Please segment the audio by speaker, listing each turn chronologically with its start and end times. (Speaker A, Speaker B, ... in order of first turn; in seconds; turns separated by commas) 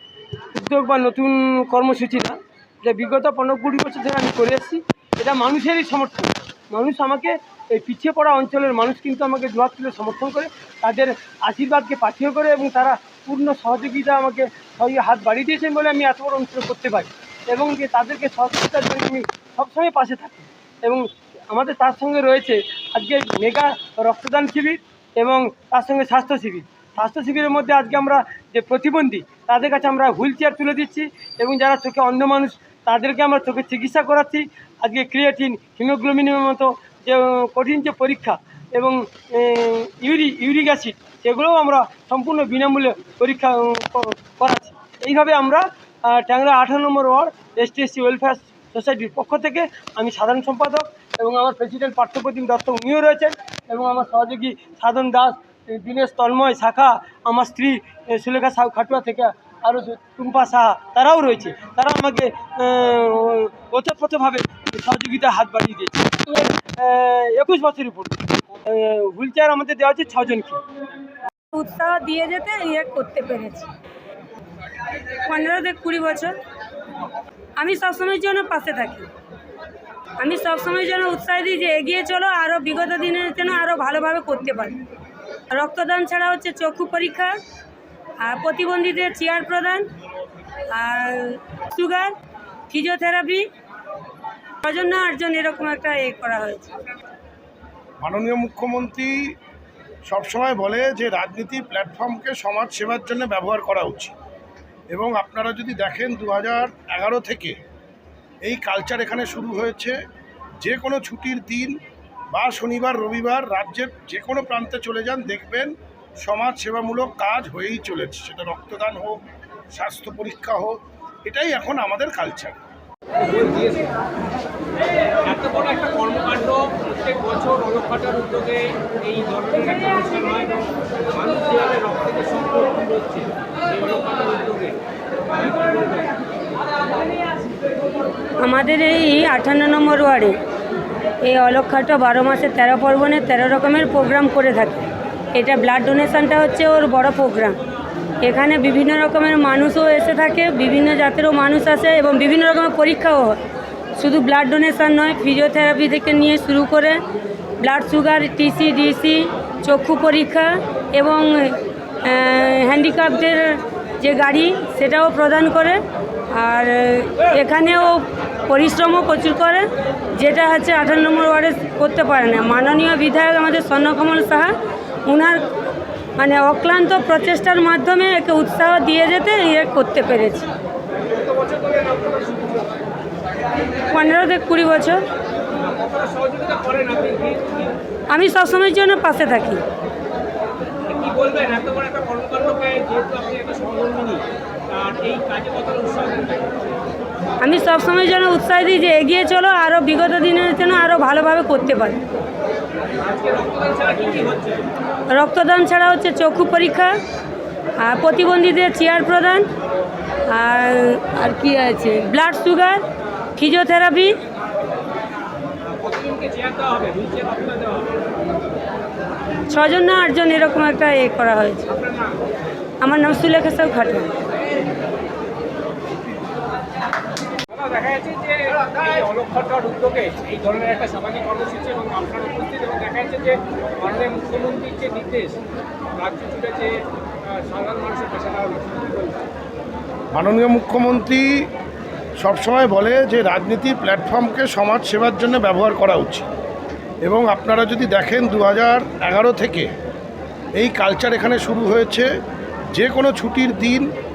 Speaker A: 0.5-70.6, Speaker B: 71.5-73.7, Speaker B: 75.2-76.3, Speaker B: 77.6-79.1, Speaker B: 80.2-84.8, Speaker B: 85.5-87.4, Speaker B: 88.2-89.9, Speaker B: 90.7-92.1, Speaker B: 92.7-93.4, Speaker B: 94.6-96.7, Speaker C: 98.0-99.3, Speaker C: 100.0-104.1, Speaker C: 104.9-107.6, Speaker C: 108.4-110.0, Speaker C: 110.6-111.7, Speaker C: 112.3-122.6, Speaker A: 123.2-123.9, Speaker A: 125.2-134.8, Speaker A: 135.3-136.2, Speaker B: 138.4-140.3, Speaker B: 141.2-147.6, Speaker B: 148.2-153.4, Speaker B: 153.9-157.0, Speaker B: 157.6-174.5, Speaker B: 175.1-175.4, Speaker B: 176.2-180.5, Speaker A: 181.1-182.8, Speaker B: 183.9-185.0, Speaker A: 185.6-187.8, Speaker B: 188.1-189.6, Speaker A: 190.8-196.5, Speaker B: 197.4-202.0, Speaker A: 203.0-204.7, Speaker B: 205.1-207.0, Speaker B: 207.8-209.5, Speaker B: 210.3-212.8, Speaker B: 213.4-214.2, Speaker A: 215.7-217.9, Speaker B: 219.5-221.8, Speaker A: 221.8-222.2, Speaker B: 222.8-224.1, Speaker A: 227.5-235.4, Speaker A: 235.9-239.2, Speaker C: 240.1-241.5, Speaker C: 242.2-246.3, Speaker C: 247.0-249.7, Speaker C: 250.6-252.1, Speaker C: 252.7-253.9